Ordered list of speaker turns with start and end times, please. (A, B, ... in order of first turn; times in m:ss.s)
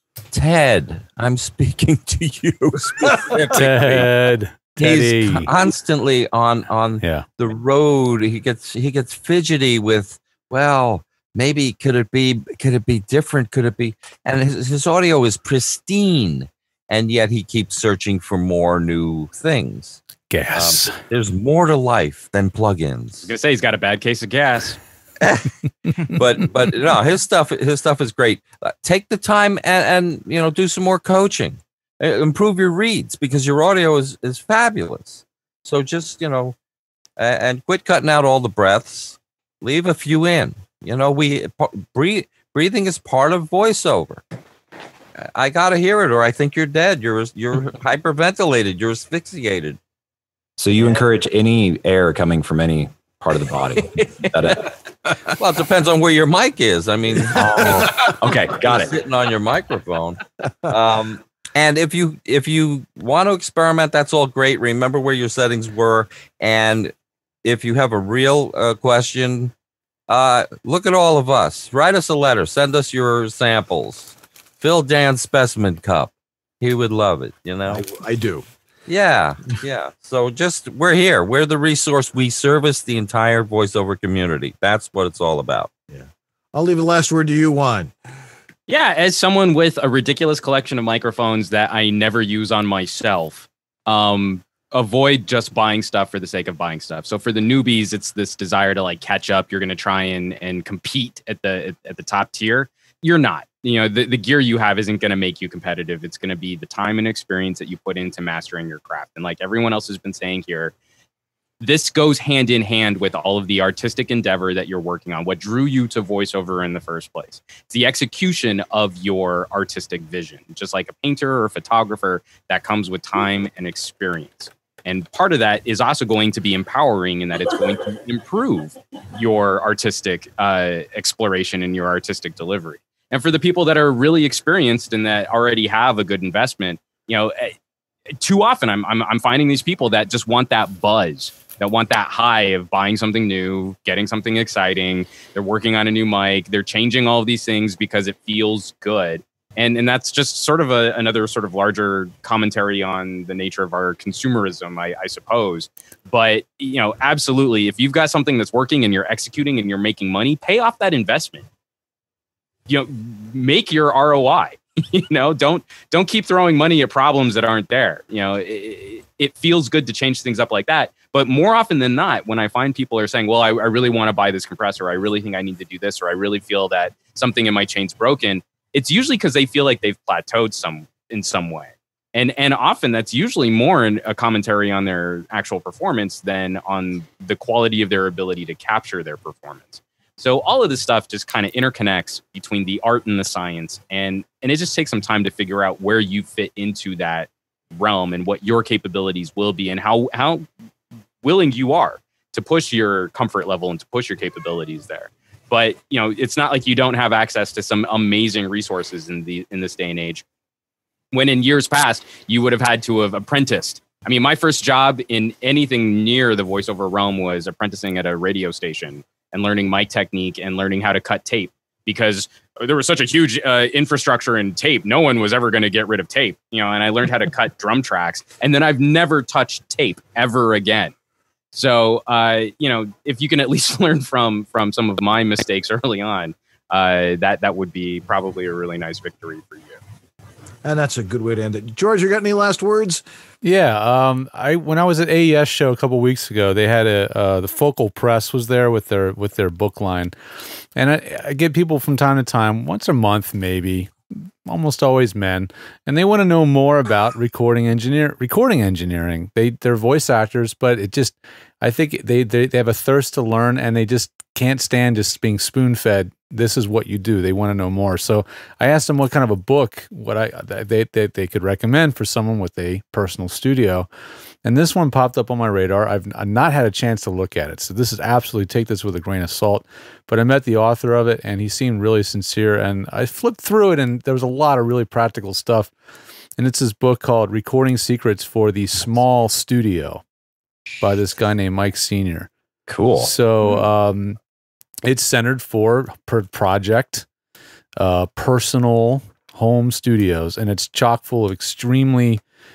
0:00.3-0:04.2 A
0:03.5-0:05.5 B
0:04.8-0:20.0 A
0:07.0-0:07.3 B
0:20.3-0:21.0 B
0:20.5-0:23.3 A
0:23.2-0:24.8 C
0:25.2-0:25.5 A
0:26.1-0:36.6 A
0:37.2-0:44.2 A
0:45.2-0:49.8 A
0:50.6-0:54.7 D
0:55.3-1:06.9 A
0:57.3-0:58.9 D
0:57.4-0:57.8 E
1:07.4-1:09.5 A
1:10.1-1:17.8 A
1:17.7-1:18.4 E
1:18.9-1:25.7 A
1:25.9-1:27.9 E
1:28.7-1:50.7 C
1:51.6-2:17.5 C
2:18.2-2:41.5 C
2:42.7-3:20.5 C
3:21.2-3:30.2 C
3:31.1-3:50.9 C
3:51.5-3:59.8 C
4:00.6-4:03.0 E
4:03.4-4:10.1 B
4:10.7-4:33.9 B
4:34.4-4:45.7 B
4:46.4-4:50.0 B
4:50.8-4:52.3 B
4:52.7-4:53.1 D
4:53.0-4:54.2 B
4:54.8-4:57.0 B
4:57.8-5:02.2 B